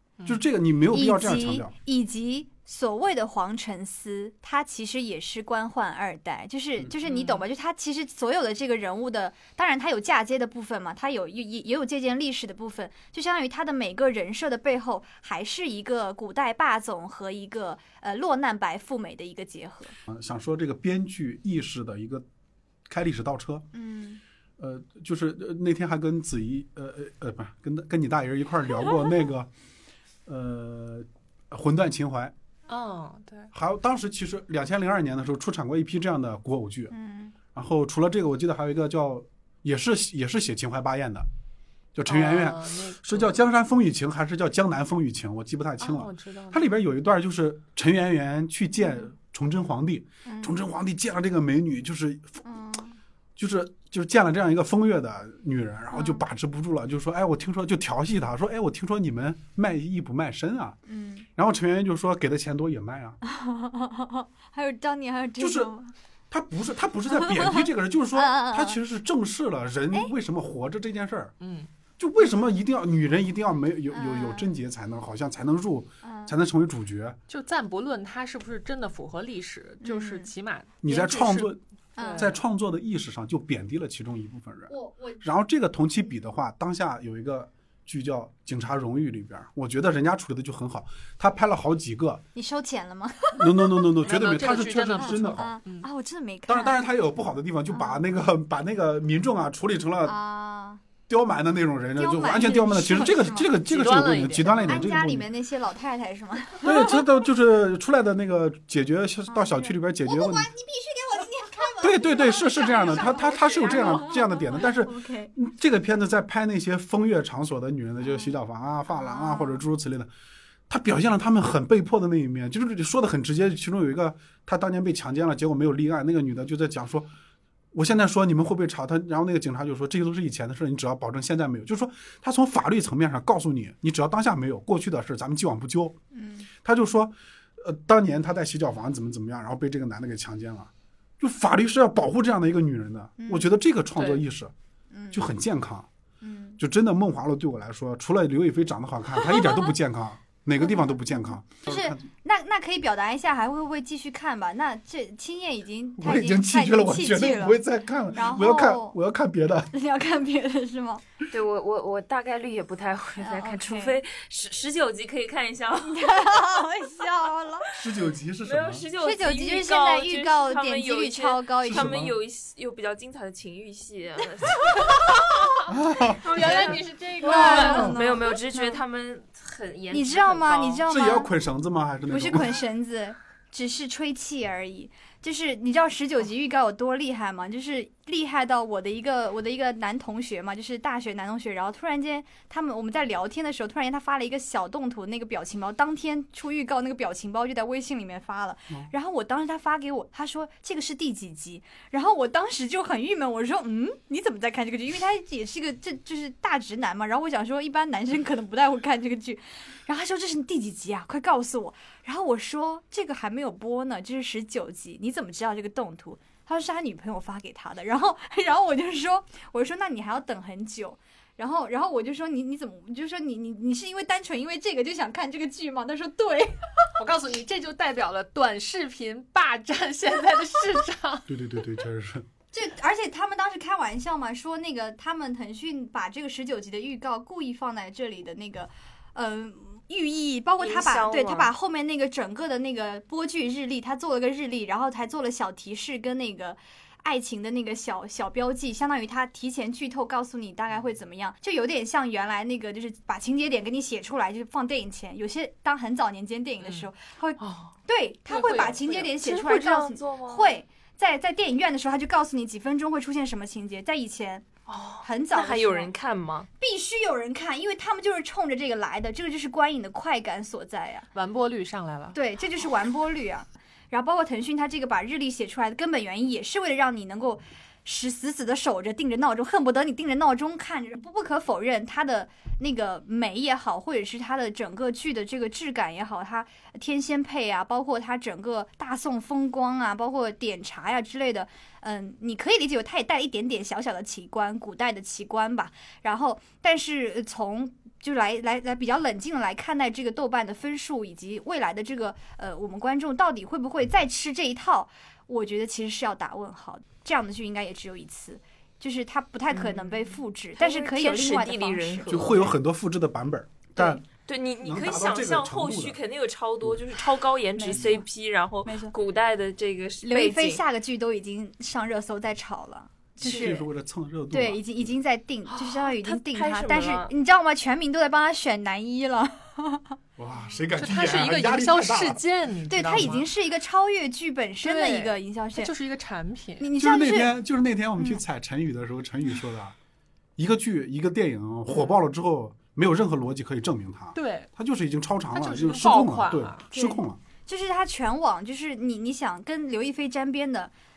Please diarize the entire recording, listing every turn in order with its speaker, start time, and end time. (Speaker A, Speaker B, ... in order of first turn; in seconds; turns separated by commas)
Speaker A: 0.2-0.5, Speaker B: 0.2-1.7, Speaker C: 0.9-20.0, Speaker A: 7.0-7.5, Speaker B: 20.1-22.2, Speaker B: 22.9-23.7, Speaker C: 23.7-24.2, Speaker B: 24.6-29.5, Speaker B: 30.3-32.3, Speaker A: 32.7-33.5, Speaker B: 33.5-36.9, Speaker C: 36.9-37.4, Speaker B: 37.5-41.3, Speaker B: 42.0-52.4, Speaker A: 42.1-43.4, Speaker A: 45.8-46.6, Speaker C: 48.8-49.1, Speaker C: 50.2-50.5, Speaker C: 52.5-53.0, Speaker B: 53.4-60.8, Speaker C: 55.9-56.2, Speaker C: 60.9-61.3, Speaker B: 61.4-63.2, Speaker C: 63.2-65.9, Speaker B: 65.4-65.7, Speaker B: 66.3-71.3, Speaker C: 67.1-68.8, Speaker A: 71.4-71.7, Speaker B: 72.0-77.2, Speaker C: 73.9-74.5, Speaker C: 76.0-76.4, Speaker A: 77.3-82.4, Speaker C: 79.8-80.3, Speaker B: 80.8-81.6, Speaker C: 82.0-82.3, Speaker B: 82.2-92.2, Speaker C: 84.7-85.2, Speaker C: 92.3-93.9, Speaker B: 93.4-95.6, Speaker A: 94.0-95.9, Speaker C: 95.0-96.8, Speaker B: 96.5-100.2, Speaker C: 97.7-98.0, Speaker C: 100.0-100.8, Speaker B: 101.1-105.2, Speaker C: 102.0-103.5, Speaker A: 103.5-104.9, Speaker C: 104.6-107.1, Speaker B: 106.6-110.5, Speaker C: 109.3-115.3, Speaker B: 111.8-120.1, Speaker D: 113.1-113.7, Speaker C: 118.0-118.4, Speaker C: 118.9-119.7, Speaker B: 120.7-127.1, Speaker B: 127.7-136.0, Speaker C: 136.1-136.5, Speaker B: 136.6-144.5, Speaker C: 143.2-143.5, Speaker A: 143.9-144.2, Speaker C: 144.9-145.2, Speaker B: 145.1-145.9, Speaker C: 146.2-146.6, Speaker B: 146.6-152.1, Speaker C: 150.6-157.6, Speaker B: 156.0-159.7, Speaker C: 158.1-159.0, Speaker C: 159.7-161.0, Speaker D: 161.3-166.1, Speaker C: 163.2-164.0, Speaker C: 165.8-167.7, Speaker B: 167.7-168.9, Speaker D: 168.4-175.3, Speaker C: 169.0-172.0, Speaker B: 171.6-172.1, Speaker C: 174.9-175.2, Speaker B: 175.7-178.0, Speaker D: 176.1-180.8, Speaker A: 176.3-177.7, Speaker C: 177.2-178.8, Speaker C: 179.9-181.3, Speaker B: 180.9-182.6, Speaker C: 182.1-226.9, Speaker A: 227.0-231.4, Speaker B: 231.3-232.3, Speaker C: 232.5-264.5, Speaker D: 240.6-241.5, Speaker A: 256.6-256.9, Speaker D: 257.4-257.8, Speaker A: 258.3-259.1, Speaker D: 259.2-260.6, Speaker D: 264.7-266.5, Speaker C: 265.0-265.9, Speaker C: 266.6-271.1, Speaker A: 271.1-272.2, Speaker C: 272.1-312.3, Speaker D: 309.6-310.0, Speaker D: 310.6-312.6, Speaker B: 312.1-314.0, Speaker D: 313.8-320.6, Speaker B: 314.6-316.0, Speaker C: 317.6-318.1, Speaker C: 318.6-318.9, Speaker C: 320.0-323.7, Speaker B: 323.2-324.9, Speaker D: 323.2-323.6, Speaker C: 324.3-330.0, Speaker D: 325.5-327.1, Speaker B: 330.2-332.2, Speaker A: 330.8-333.3, Speaker C: 332.7-335.7, Speaker A: 334.6-336.7, Speaker C: 336.6-337.4, Speaker B: 336.8-339.8, Speaker B: 340.4-347.2, Speaker A: 344.1-344.5, Speaker A: 345.3-346.6, Speaker C: 346.7-350.7